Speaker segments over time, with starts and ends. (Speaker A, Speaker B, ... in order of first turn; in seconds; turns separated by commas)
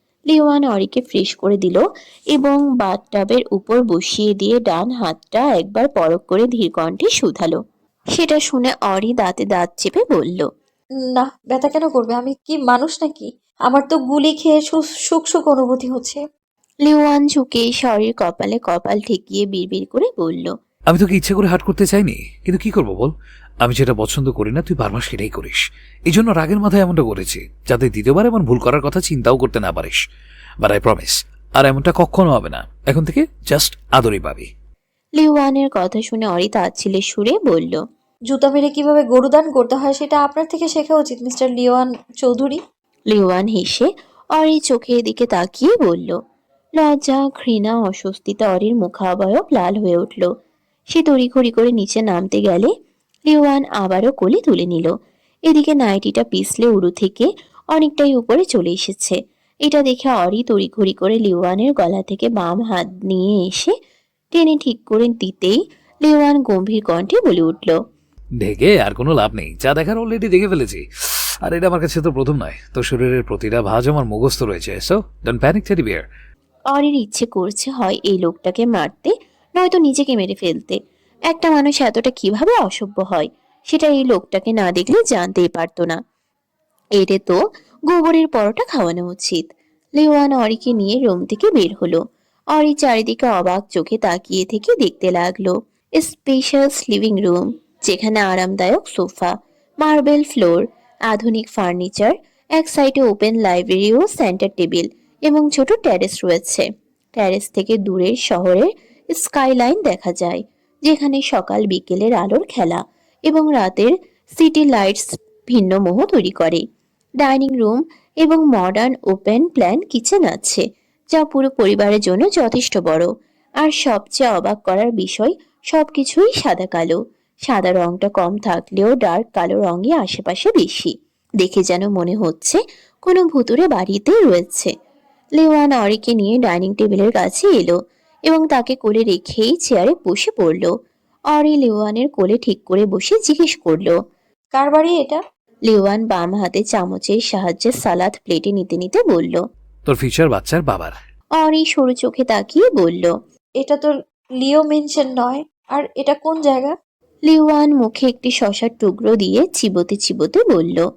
Speaker A: 0.3-7.6, Speaker A: 8.1-10.5, Speaker B: 11.1-16.2, Speaker A: 16.8-20.5, Speaker C: 20.9-30.0, Speaker C: 30.6-34.5, Speaker A: 35.2-37.8, Speaker B: 38.3-42.6, Speaker A: 43.1-46.2, Speaker A: 46.8-50.3, Speaker A: 50.9-52.7, Speaker A: 53.3-54.9, Speaker A: 55.5-63.7, Speaker A: 64.3-67.8, Speaker C: 68.4-70.8, Speaker C: 71.4-76.0, Speaker A: 76.7-80.8, Speaker A: 81.3-86.0, Speaker A: 87.0-87.4, Speaker A: 87.9-89.5, Speaker A: 90.0-92.0, Speaker A: 92.5-106.6, Speaker A: 107.2-116.6, Speaker A: 117.2-123.1, Speaker A: 123.6-134.7, Speaker A: 135.4-137.8, Speaker A: 138.3-140.7, Speaker A: 141.3-143.9, Speaker B: 144.5-145.2, Speaker A: 145.7-149.4, Speaker C: 149.8-150.9, Speaker A: 151.4-153.1, Speaker B: 153.6-156.7, Speaker A: 157.3-160.8